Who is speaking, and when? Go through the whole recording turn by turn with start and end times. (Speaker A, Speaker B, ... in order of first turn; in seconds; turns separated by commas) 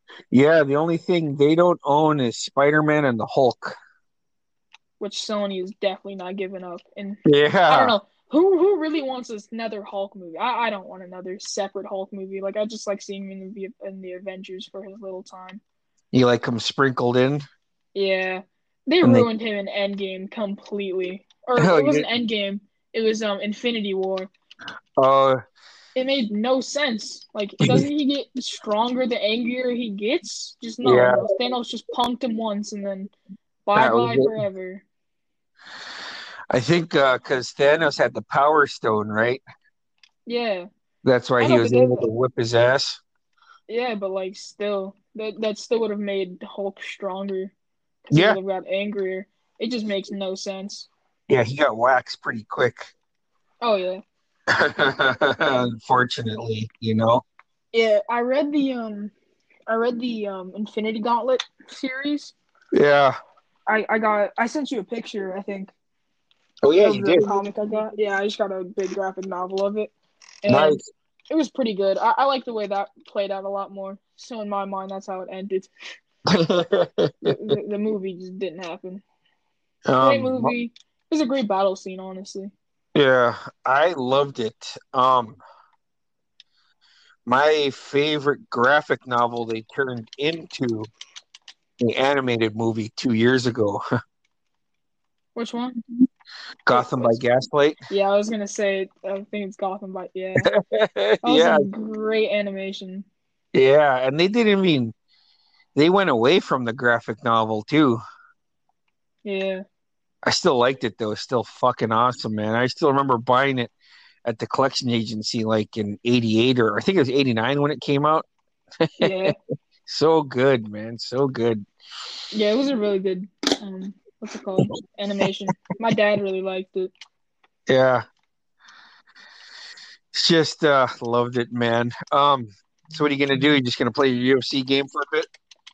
Speaker A: 0.3-3.8, Speaker B: 5.0-15.6, Speaker A: 7.2-8.0, Speaker A: 16.1-17.4, Speaker B: 17.9-24.3, Speaker A: 19.0-19.3, Speaker A: 21.6-22.1, Speaker A: 25.0-25.4, Speaker B: 25.9-33.1, Speaker A: 27.6-27.9, Speaker A: 30.8-31.3, Speaker B: 33.7-34.8, Speaker A: 33.8-34.4, Speaker A: 36.5-39.4, Speaker B: 40.3-40.7, Speaker A: 41.0-43.0, Speaker B: 41.4-42.1, Speaker B: 43.7-47.5, Speaker B: 48.0-50.9, Speaker A: 48.1-48.4, Speaker A: 51.3-52.9, Speaker B: 53.6-54.0, Speaker A: 54.5-57.2, Speaker B: 57.7-59.1, Speaker B: 59.7-62.3, Speaker A: 62.7-63.2, Speaker B: 63.7-65.7, Speaker A: 66.6-67.3, Speaker B: 66.8-69.9, Speaker B: 70.4-75.7, Speaker A: 70.5-70.9, Speaker A: 76.3-77.4, Speaker B: 77.3-79.0, Speaker A: 79.9-80.5, Speaker B: 80.0-82.5, Speaker A: 83.0-85.4, Speaker A: 87.3-90.9, Speaker A: 91.8-93.8, Speaker B: 95.3-95.8, Speaker A: 96.7-97.8, Speaker B: 96.7-97.2, Speaker B: 97.9-100.5, Speaker A: 100.4-101.7, Speaker B: 101.2-103.1, Speaker A: 103.5-105.0, Speaker A: 105.8-108.0, Speaker B: 109.2-109.6, Speaker A: 110.2-113.7, Speaker A: 114.2-118.3, Speaker A: 118.9-119.3, Speaker B: 119.0-119.3, Speaker A: 119.9-121.7, Speaker B: 122.3-126.9, Speaker A: 127.7-128.1, Speaker A: 130.1-135.3